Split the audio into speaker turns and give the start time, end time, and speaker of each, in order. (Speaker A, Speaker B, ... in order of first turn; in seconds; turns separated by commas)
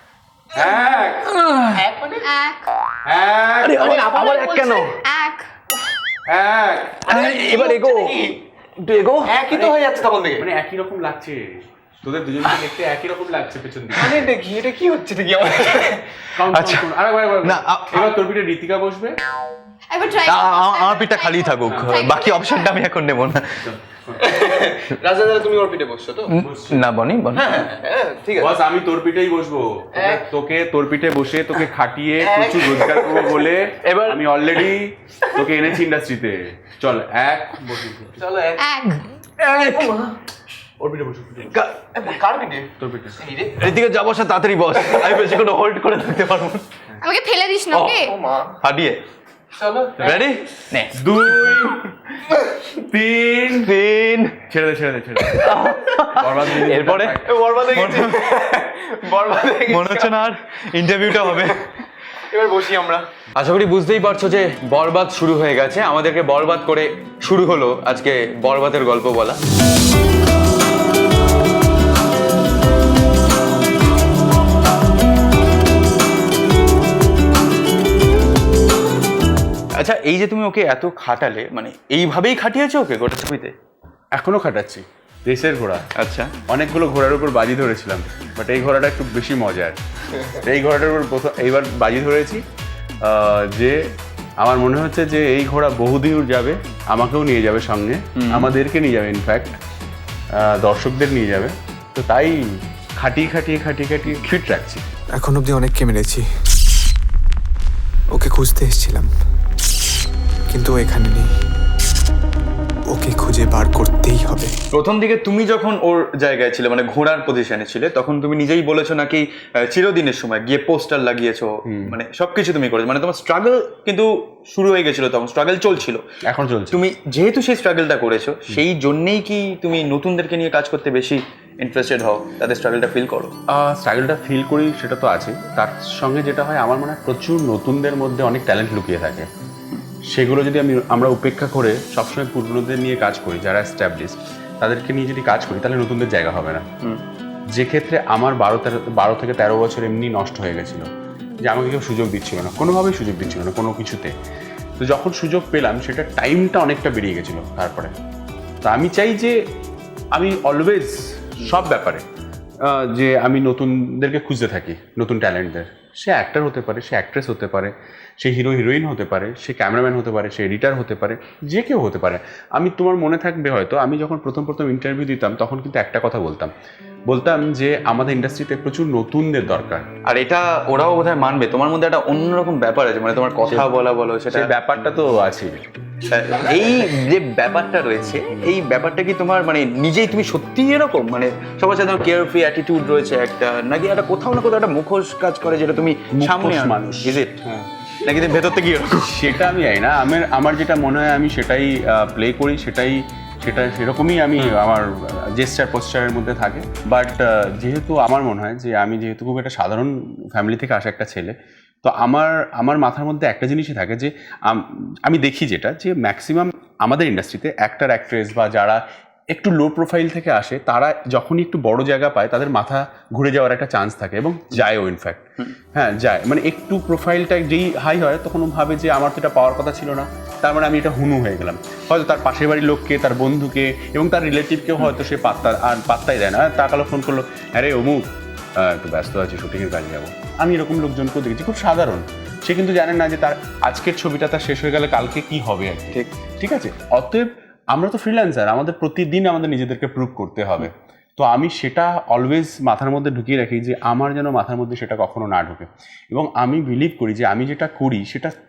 Speaker A: 0.5-1.0, Speaker B: 0.6-1.3, Speaker C: 1.3-1.8, Speaker A: 1.7-2.2, Speaker D: 2.2-2.7, Speaker B: 3.0-3.8, Speaker C: 3.6-4.9, Speaker A: 3.8-5.0, Speaker D: 3.9-5.5, Speaker B: 6.3-7.1, Speaker A: 7.0-8.4, Speaker C: 7.1-8.3, Speaker C: 8.8-9.6, Speaker A: 9.2-10.4, Speaker B: 10.4-14.2, Speaker A: 14.0-16.2, Speaker B: 16.4-19.2, Speaker C: 16.5-16.9, Speaker C: 17.4-18.1, Speaker D: 19.9-22.8, Speaker C: 20.2-23.6, Speaker B: 21.7-22.1, Speaker B: 23.6-24.2, Speaker A: 24.2-26.3, Speaker C: 26.3-27.8, Speaker B: 26.4-26.8, Speaker A: 27.4-28.5, Speaker B: 28.4-38.4, Speaker A: 29.9-30.3, Speaker A: 32.2-33.5, Speaker C: 33.8-34.2, Speaker A: 38.2-38.6, Speaker D: 38.6-39.1, Speaker C: 39.4-40.0, Speaker A: 39.7-40.1, Speaker B: 40.8-41.5, Speaker A: 41.9-43.6, Speaker B: 42.8-43.2, Speaker C: 43.5-46.6, Speaker D: 47.0-48.2, Speaker C: 47.7-48.0, Speaker A: 48.1-48.5, Speaker C: 48.6-49.0, Speaker A: 49.5-50.2, Speaker C: 50.0-51.0, Speaker B: 50.9-51.8, Speaker B: 52.8-53.7, Speaker C: 53.5-54.4, Speaker B: 54.5-57.3, Speaker C: 55.2-61.7, Speaker A: 57.2-60.1, Speaker A: 62.2-63.1, Speaker C: 63.3-69.4, Speaker C: 79.8-83.5, Speaker B: 84.1-85.8, Speaker C: 86.0-86.3, Speaker B: 86.5-89.8, Speaker B: 90.3-92.4, Speaker B: 93.0-93.8, Speaker B: 94.4-99.6, Speaker C: 98.2-98.5, Speaker B: 100.3-102.4, Speaker B: 103.0-104.8, Speaker E: 105.2-106.2, Speaker E: 108.1-109.1, Speaker E: 110.5-111.3, Speaker E: 112.9-114.5, Speaker C: 114.7-126.0, Speaker B: 121.7-122.0, Speaker B: 126.3-126.8, Speaker C: 126.7-133.3, Speaker B: 133.5-139.3, Speaker B: 140.1-146.6, Speaker B: 147.5-150.8, Speaker B: 151.4-154.1, Speaker B: 154.8-157.9, Speaker B: 158.6-159.3, Speaker B: 160.1-162.0, Speaker B: 162.6-176.5, Speaker B: 177.1-179.8, Speaker C: 180.1-184.5, Speaker B: 184.3-185.6, Speaker C: 186.0-197.4, Speaker B: 196.1-197.6, Speaker C: 198.0-199.4, Speaker B: 199.1-238.0, Speaker B: 238.6-258.3